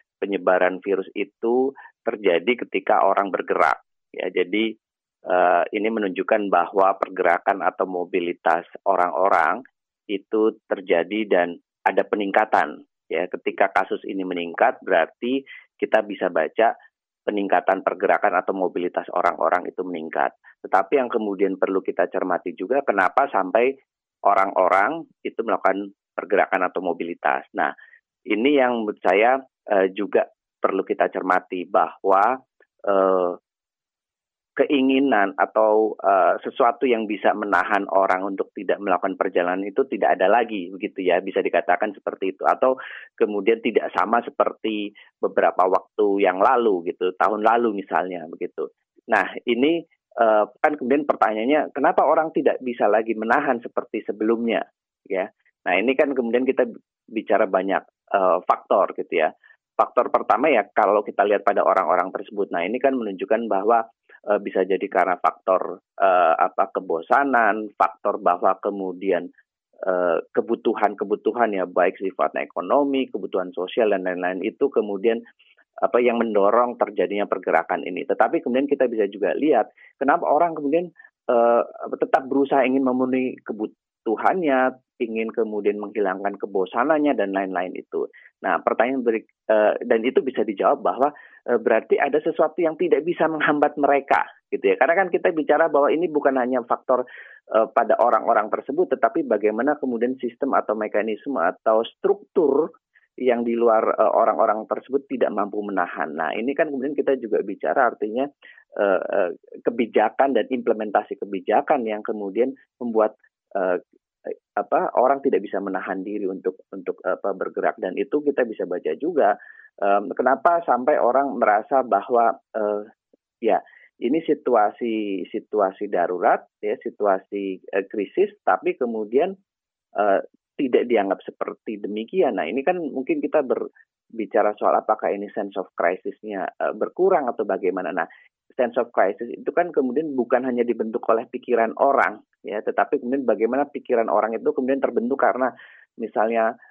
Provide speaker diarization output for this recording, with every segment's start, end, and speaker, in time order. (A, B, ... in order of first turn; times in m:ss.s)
0:00.2-0:04.7 A
0:05.3-0:09.6 A
0:10.1-0:16.7 A
0:17.3-0:23.7 A
0:24.3-0:27.7 A
0:28.3-0:33.4 A
0:34.6-1:03.8 A
1:04.3-1:09.2 A
1:09.9-1:15.2 A
1:15.8-1:37.0 A
1:37.6-1:42.7 A
1:43.2-1:53.8 A
1:54.6-1:59.3 A
1:59.8-2:02.8 A
2:03.4-2:09.3 A
2:10.0-2:13.6 A
2:14.2-2:18.1 A
2:18.6-2:25.5 A
2:26.0-2:26.5 A